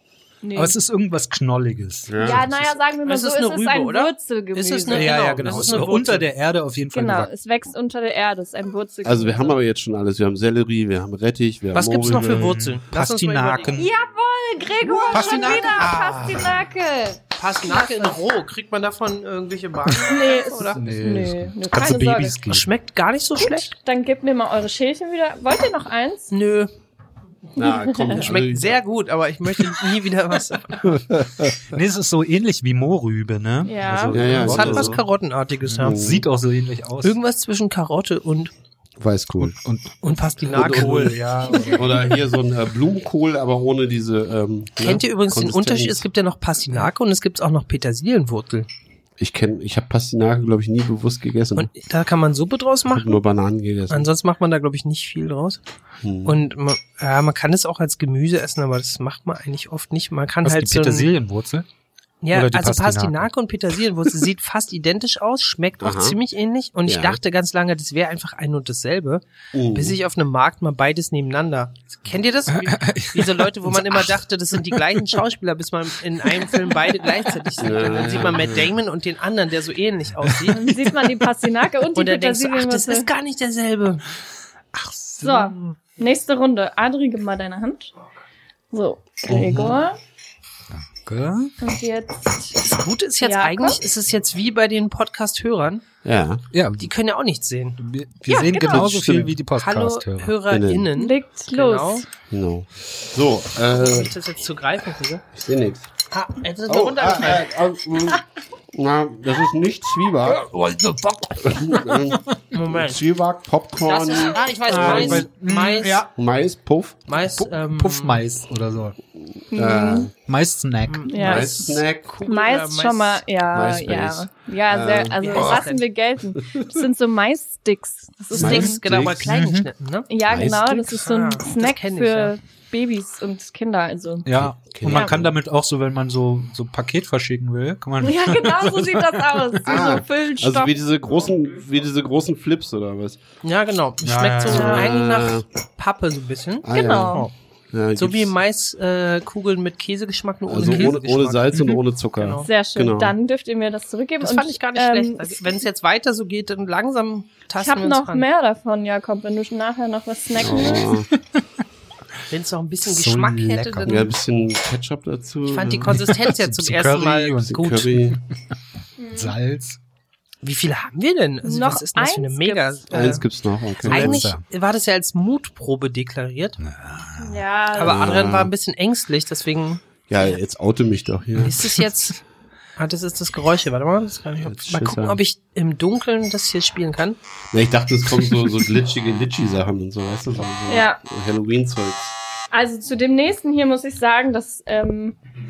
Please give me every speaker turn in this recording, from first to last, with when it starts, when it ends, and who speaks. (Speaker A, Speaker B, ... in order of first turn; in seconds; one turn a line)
Speaker A: 0.4-0.7
Speaker B: 0.5-2.7
Speaker C: 2.1-2.5
Speaker A: 2.2-5.4
Speaker D: 3.0-6.3
Speaker B: 4.9-7.3
Speaker A: 6.9-9.6
Speaker C: 9.0-12.6
Speaker D: 11.7-13.8
Speaker B: 12.0-13.9
Speaker A: 13.7-18.0
Speaker B: 14.8-16.5
Speaker D: 15.1-16.4
Speaker D: 17.4-20.8
Speaker A: 20.0-22.4
Speaker B: 20.6-22.7
Speaker D: 22.5-23.7
Speaker A: 23.4-26.3
Speaker D: 26.3-26.7
Speaker C: 27.6-28.8
Speaker A: 27.6-28.2
Speaker D: 28.1-31.0
Speaker C: 30.9-31.6
Speaker B: 31.6-35.0
Speaker A: 33.6-34.1
Speaker C: 34.0-35.0
Speaker D: 34.4-36.1
Speaker B: 35.6-37.1
Speaker C: 35.8-36.2
Speaker D: 37.0-38.5
Speaker C: 39.0-39.5
Speaker B: 39.4-42.1
Speaker D: 40.0-41.3
Speaker C: 40.5-46.0
Speaker A: 41.5-41.8
Speaker D: 44.8-48.7
Speaker C: 49.2-51.7
Speaker D: 51.5-53.2
Speaker C: 52.9-54.1
Speaker D: 53.9-55.6
Speaker C: 56.0-56.4
Speaker D: 56.2-61.1
Speaker B: 60.4-61.6
Speaker D: 62.2-80.6
Speaker B: 62.3-63.3
Speaker C: 65.8-66.2
Speaker C: 66.9-67.2
Speaker C: 69.5-70.0
Speaker B: 72.5-75.0
Speaker C: 77.6-78.7
Speaker B: 80.2-81.2
Speaker A: 80.5-83.1
Speaker D: 81.9-84.0
Speaker B: 84.7-85.6
Speaker A: 85.2-87.9
Speaker A: 88.7-90.0
Speaker C: 89.3-89.8
Speaker B: 90.7-91.5
Speaker A: 91.6-92.6
Speaker D: 92.6-95.8
Speaker A: 93.2-93.8
Speaker C: 96.0-96.4
Speaker B: 96.5-96.9
Speaker D: 96.8-97.8
Speaker B: 97.8-100.4
Speaker A: 98.3-98.9
Speaker C: 98.6-99.3
Speaker D: 99.5-102.0
Speaker C: 100.5-100.9
Speaker A: 100.9-102.1
Speaker C: 102.3-104.1
Speaker D: 103.7-105.2
Speaker C: 105.3-105.9
Speaker D: 106.1-107.5
Speaker C: 106.7-110.5
Speaker B: 110.2-112.2
Speaker C: 111.4-115.2
Speaker D: 112.5-113.0
Speaker D: 113.8-116.0
Speaker B: 114.7-116.1
Speaker C: 116.1-117.0
Speaker D: 117.1-118.2
Speaker B: 117.3-119.0
Speaker C: 119.5-120.1
Speaker A: 119.5-120.1
Speaker B: 120.2-121.1
Speaker D: 120.9-123.2
Speaker A: 121.1-121.6
Speaker C: 121.1-122.1
Speaker A: 122.2-128.8
Speaker C: 123.5-125.6
Speaker D: 125.2-125.8
Speaker D: 128.3-130.1
Speaker C: 128.3-129.3
Speaker B: 129.2-129.7
Speaker A: 130.1-134.3
Speaker C: 130.3-130.9
Speaker D: 130.7-132.3
Speaker B: 134.2-139.9
Speaker C: 134.3-135.3
Speaker A: 134.9-135.2
Speaker A: 138.0-140.7
Speaker C: 139.6-143.2
Speaker D: 143.4-147.3
Speaker B: 144.0-144.8
Speaker C: 144.5-145.4
Speaker A: 144.5-144.9
Speaker C: 146.6-148.3
Speaker A: 146.7-147.3
Speaker D: 147.9-152.5
Speaker C: 150.5-153.2
Speaker B: 150.6-150.9
Speaker A: 152.4-155.6
Speaker D: 154.2-158.3
Speaker A: 157.6-160.9
Speaker C: 160.3-161.1
Speaker D: 162.3-164.1
Speaker B: 162.8-164.1
Speaker C: 163.8-166.0
Speaker D: 165.5-167.9
Speaker B: 165.9-168.2
Speaker C: 167.4-168.2
Speaker A: 169.0-169.3
Speaker B: 169.1-169.8
Speaker D: 170.4-173.2
Speaker A: 171.4-173.1
Speaker C: 172.9-174.2
Speaker B: 173.8-174.4
Speaker D: 173.8-176.6
Speaker B: 176.6-177.4
Speaker A: 177.2-178.1
Speaker D: 177.7-180.3
Speaker C: 177.8-178.5
Speaker C: 180.1-181.8
Speaker D: 181.4-182.2
Speaker D: 182.8-187.2
Speaker C: 184.4-185.2
Speaker C: 187.5-192.1
Speaker A: 190.7-191.0
Speaker A: 192.5-195.2